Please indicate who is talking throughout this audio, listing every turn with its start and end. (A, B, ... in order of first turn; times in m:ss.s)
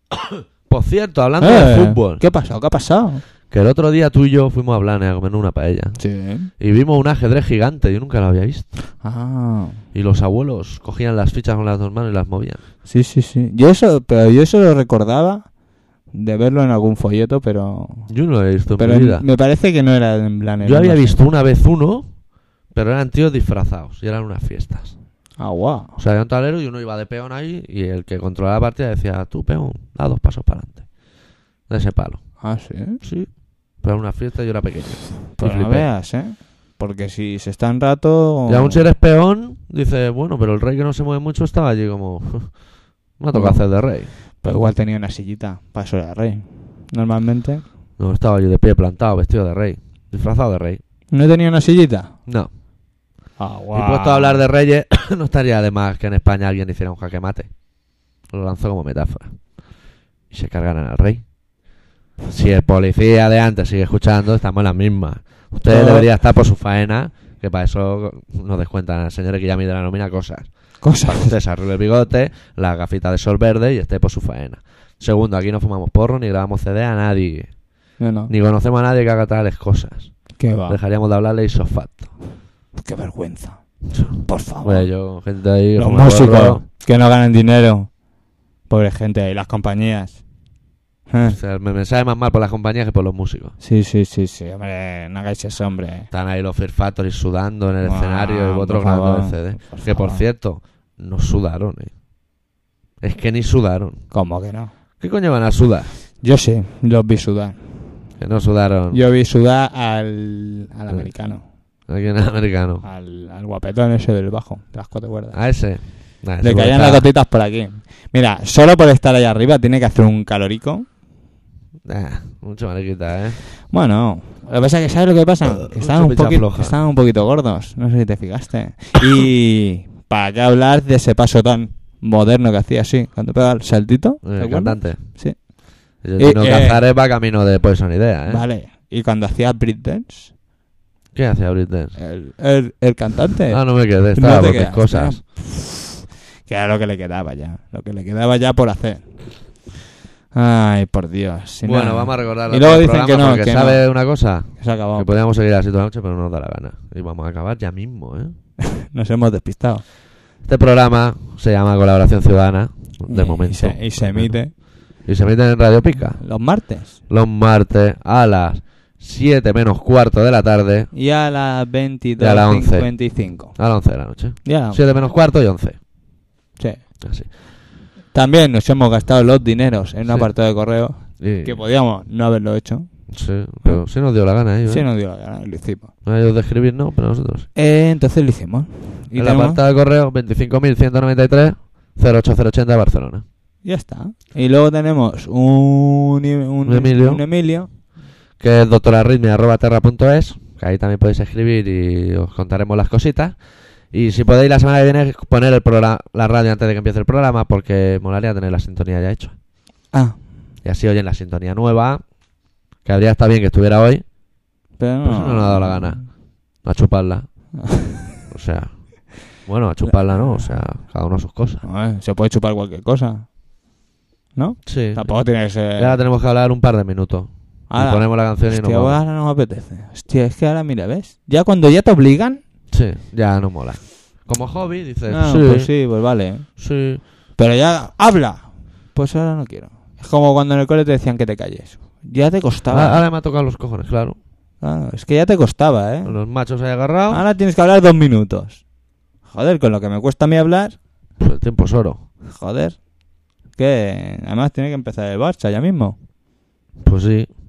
0:00.7-0:02.2 A
0:01.4-0:03.2 B
0:03.5-0:08.7 A
0:06.0-0:06.5 B
0:09.0-0:09.8 B
0:09.9-0:12.6 A
0:12.8-0:15.5 B
0:16.1-0:18.1 B
0:18.1-0:19.2 A
0:18.8-0:21.2 B
0:20.6-0:22.1 A
0:22.7-0:25.0 A
0:25.4-0:25.9 B
0:26.0-0:30.9 A
0:31.7-0:32.4 A
0:32.4-0:33.0 B
0:33.0-0:35.9 A
0:35.4-0:38.9 B
0:38.5-0:42.6 A
0:43.2-0:44.1 A
0:43.3-0:47.6 B
0:48.0-0:50.8 A
0:51.1-0:52.1 B
0:53.4-0:54.4 B
0:53.7-0:57.5 A
0:58.2-0:59.6 A
1:00.3-1:01.3 A
1:02.3-1:17.6 A
1:05.7-1:06.1 B
1:10.8-1:11.4 B
1:18.0-1:18.3 B
1:18.3-1:22.1 A
1:20.4-1:20.8 B
1:22.8-1:23.6 B
1:23.9-1:26.6 A
1:24.2-1:24.9 B
1:25.8-1:27.9 B
1:28.7-1:30.2 B
1:31.1-1:31.4 B
1:31.2-1:33.6 A
1:33.6-1:36.1 B
1:36.1-1:41.9 A
1:37.8-1:40.2 B
1:43.0-1:44.0 A
1:44.1-1:44.7 B
1:45.0-1:45.9 A
1:46.2-1:48.0 B
1:48.2-1:49.0 A
1:48.9-1:51.4 B
1:51.9-1:52.8 A
1:52.8-1:55.4 B
1:55.3-1:57.1 A
1:56.4-2:00.9 B
2:01.8-2:03.4 A
2:03.7-2:16.8 B
2:05.6-2:06.8 A
2:14.2-2:15.0 A
2:16.0-2:18.4 A
2:18.3-2:20.3 B
2:21.1-2:22.0 A
2:22.0-2:29.0 B
2:23.5-2:25.2 A
2:30.3-2:33.9 B
2:31.6-2:38.4 A
2:34.5-2:35.1 B
2:38.8-2:39.8 B
2:40.4-2:46.3 A
2:43.1-2:44.5 B
2:46.2-2:47.0 B
2:47.1-2:50.9 A
2:50.9-2:53.6 B
2:52.2-2:55.8 A
2:54.4-2:54.8 B
2:57.0-2:57.3 A
2:58.1-3:02.9 B
3:01.2-3:01.6 A
3:03.1-3:04.9 A
3:03.6-3:03.9 B
3:04.6-3:05.9 B
3:06.0-3:07.5 A
3:07.6-3:09.6 B
3:09.1-3:13.2 A
3:13.6-3:17.7 B
3:16.6-3:17.2 A
3:18.4-3:23.4 A
3:23.9-3:29.4 A
3:29.9-3:30.2 B
3:30.6-3:32.0 A
3:32.8-3:34.0 A
3:34.8-3:36.0 B
3:35.0-3:37.4 A
3:37.6-3:38.0 B
3:38.3-3:41.6 A
3:39.9-3:40.6 B
3:41.6-3:43.3 B
3:44.4-3:46.0 B
3:44.7-3:49.0 A
3:47.7-3:52.4 B
3:52.7-3:55.7 A
3:55.1-3:56.5 B
3:56.6-3:57.0 A
3:57.4-4:03.0 B
4:02.7-4:04.2 A
4:04.6-4:06.2 B
4:06.0-4:07.2 A
4:07.1-4:08.6 B
4:09.3-4:10.8 B
4:11.2-4:12.0 A
4:12.3-4:12.9 B
4:13.5-4:16.0 B
4:16.8-4:17.3 A